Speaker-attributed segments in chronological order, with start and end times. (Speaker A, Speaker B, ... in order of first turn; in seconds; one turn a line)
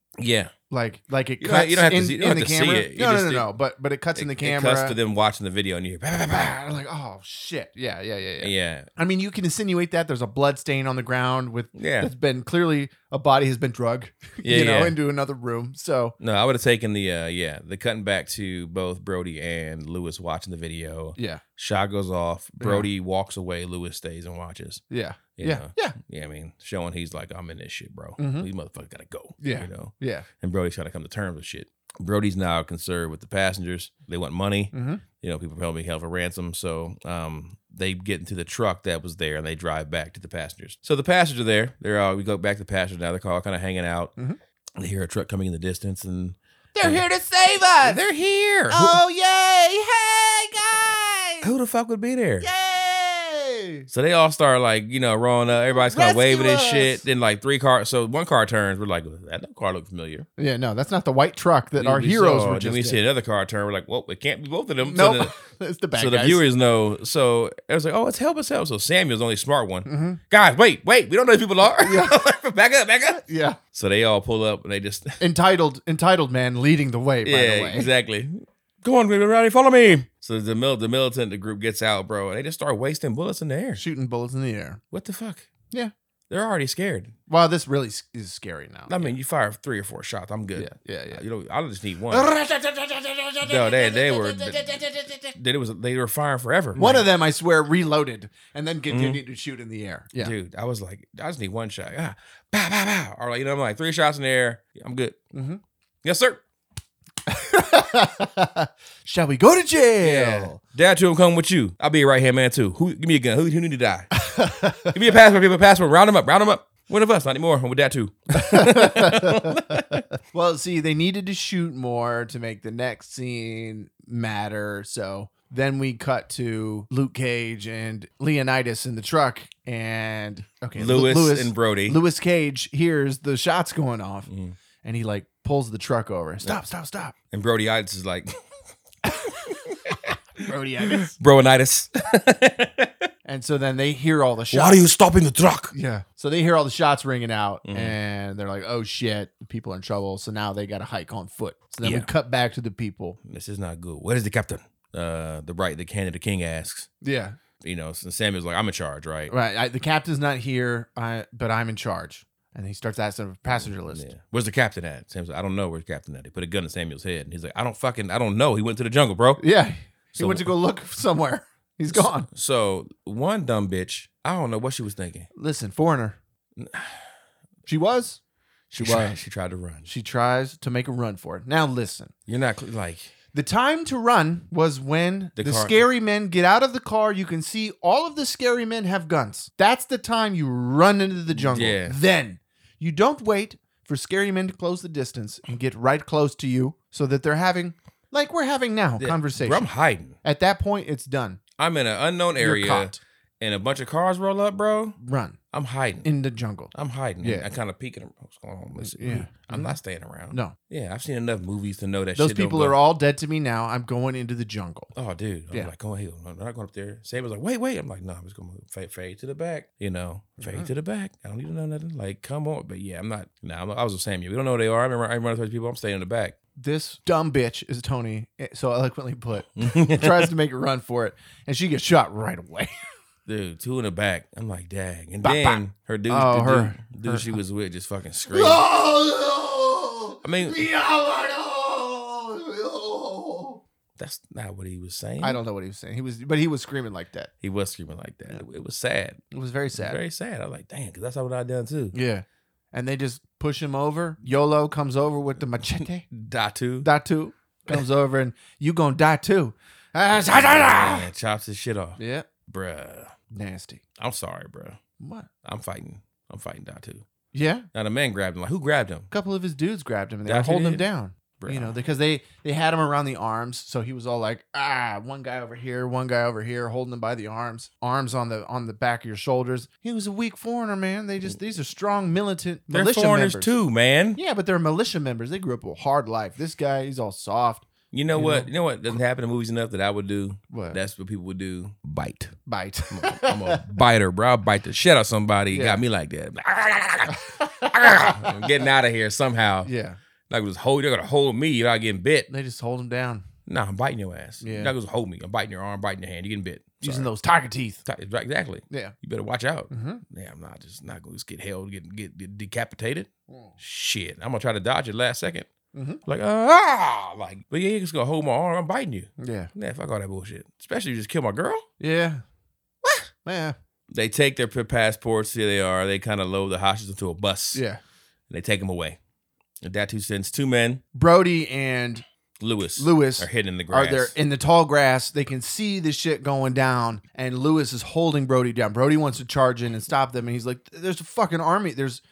Speaker A: 0.2-0.5
Speaker B: 0.7-5.0
Speaker A: 1.4-3.5
Speaker A: 4.1-6.6
Speaker B: 6.2-16.1
Speaker A: 8.4-8.9
Speaker A: 11.7-12.1
Speaker A: 14.4-14.9
Speaker A: 16.2-24.8
Speaker B: 21.2-21.4
Speaker B: 22.6-22.9
Speaker B: 24.9-25.9
Speaker A: 25.4-44.1
Speaker B: 28.2-28.5
Speaker B: 29.4-30.2
Speaker B: 34.7-35.0
Speaker A: 44.8-47.0
Speaker B: 46.7-48.0
Speaker A: 47.8-49.0
Speaker B: 48.7-51.5
Speaker A: 51.4-52.5
Speaker B: 52.4-53.9
Speaker A: 53.9-60.3
Speaker B: 55.7-57.0
Speaker B: 60.4-63.0
Speaker A: 61.8-65.3
Speaker B: 64.8-66.4
Speaker A: 65.9-75.2
Speaker B: 69.9-70.2
Speaker B: 71.7-72.2
Speaker B: 73.2-73.6
Speaker B: 75.2-77.9
Speaker A: 77.2-83.8
Speaker B: 83.8-84.8
Speaker A: 84.9-85.5
Speaker A: 86.3-87.1
Speaker B: 87.3-89.1
Speaker A: 88.9-92.3
Speaker B: 90.5-91.2
Speaker B: 92.1-95.2
Speaker A: 93.4-97.0
Speaker B: 96.8-100.3
Speaker A: 98.9-99.2
Speaker A: 100.2-105.2
Speaker B: 105.3-105.6
Speaker A: 106.0-106.4
Speaker B: 107.2-110.6
Speaker A: 110.0-114.2
Speaker B: 114.1-114.9
Speaker A: 114.9-120.0
Speaker B: 118.3-134.3
Speaker A: 130.8-132.0
Speaker A: 134.3-134.6
Speaker B: 134.8-137.1
Speaker A: 137.3-138.4
Speaker B: 139.1-141.1
Speaker A: 139.2-140.1
Speaker A: 140.8-143.1
Speaker B: 143.2-144.9
Speaker A: 144.5-145.7
Speaker B: 145.7-153.2
Speaker A: 147.6-147.9
Speaker A: 151.8-152.1
Speaker A: 153.2-156.9
Speaker B: 157.0-157.4
Speaker A: 157.6-159.3
Speaker B: 159.3-164.1
Speaker A: 163.7-169.4
Speaker B: 169.4-172.3
Speaker A: 170.2-170.5
Speaker A: 171.9-175.3
Speaker B: 175.3-176.2
Speaker A: 176.6-177.1
Speaker B: 177.7-178.2
Speaker A: 178.7-179.9
Speaker B: 178.8-179.2
Speaker B: 179.9-182.1
Speaker A: 182.3-183.1
Speaker B: 183.3-199.7
Speaker A: 185.4-185.8
Speaker A: 191.3-192.0
Speaker A: 199.0-200.2
Speaker B: 200.2-201.4
Speaker A: 201.6-204.9
Speaker B: 202.4-202.9
Speaker B: 205.0-205.4
Speaker A: 205.5-206.1
Speaker B: 206.0-207.5
Speaker A: 206.7-212.8
Speaker B: 208.8-209.8
Speaker B: 210.3-210.6
Speaker B: 212.2-214.9
Speaker A: 214.9-226.4
Speaker B: 220.4-220.7
Speaker B: 226.6-232.7
Speaker A: 229.6-230.3
Speaker A: 233.2-238.6
Speaker B: 235.2-237.4
Speaker B: 238.3-243.6
Speaker A: 240.2-240.6
Speaker A: 244.0-245.4
Speaker B: 245.2-247.3
Speaker A: 247.4-249.2
Speaker B: 249.3-250.0
Speaker A: 249.7-251.9
Speaker B: 251.9-256.1
Speaker A: 256.1-256.9
Speaker B: 256.8-261.1
Speaker A: 260.2-263.1
Speaker B: 262.0-262.3
Speaker B: 263.3-263.8
Speaker A: 264.0-264.8
Speaker B: 265.0-265.3
Speaker A: 265.4-267.0
Speaker B: 267.3-267.7
Speaker A: 267.7-269.1
Speaker B: 269.1-283.5
Speaker A: 270.2-270.9
Speaker A: 271.4-271.8
Speaker A: 282.7-284.2
Speaker B: 284.1-288.5
Speaker A: 287.9-292.3
Speaker B: 290.5-290.8
Speaker B: 292.5-293.7
Speaker A: 292.9-299.7
Speaker B: 295.5-295.8
Speaker B: 297.1-298.5
Speaker B: 299.6-300.0
Speaker A: 300.3-302.3
Speaker B: 302.3-303.2
Speaker A: 303.5-307.1
Speaker B: 304.4-304.7
Speaker B: 306.8-307.8
Speaker A: 307.9-315.5
Speaker B: 309.7-310.0
Speaker B: 315.7-316.0
Speaker A: 316.1-321.6
Speaker B: 319.2-319.5
Speaker B: 321.8-322.2
Speaker B: 323.2-323.5
Speaker A: 323.9-327.6
Speaker B: 327.5-327.8
Speaker A: 328.3-329.0
Speaker A: 329.6-330.8
Speaker B: 330.9-332.0
Speaker A: 332.4-334.1
Speaker B: 332.8-342.0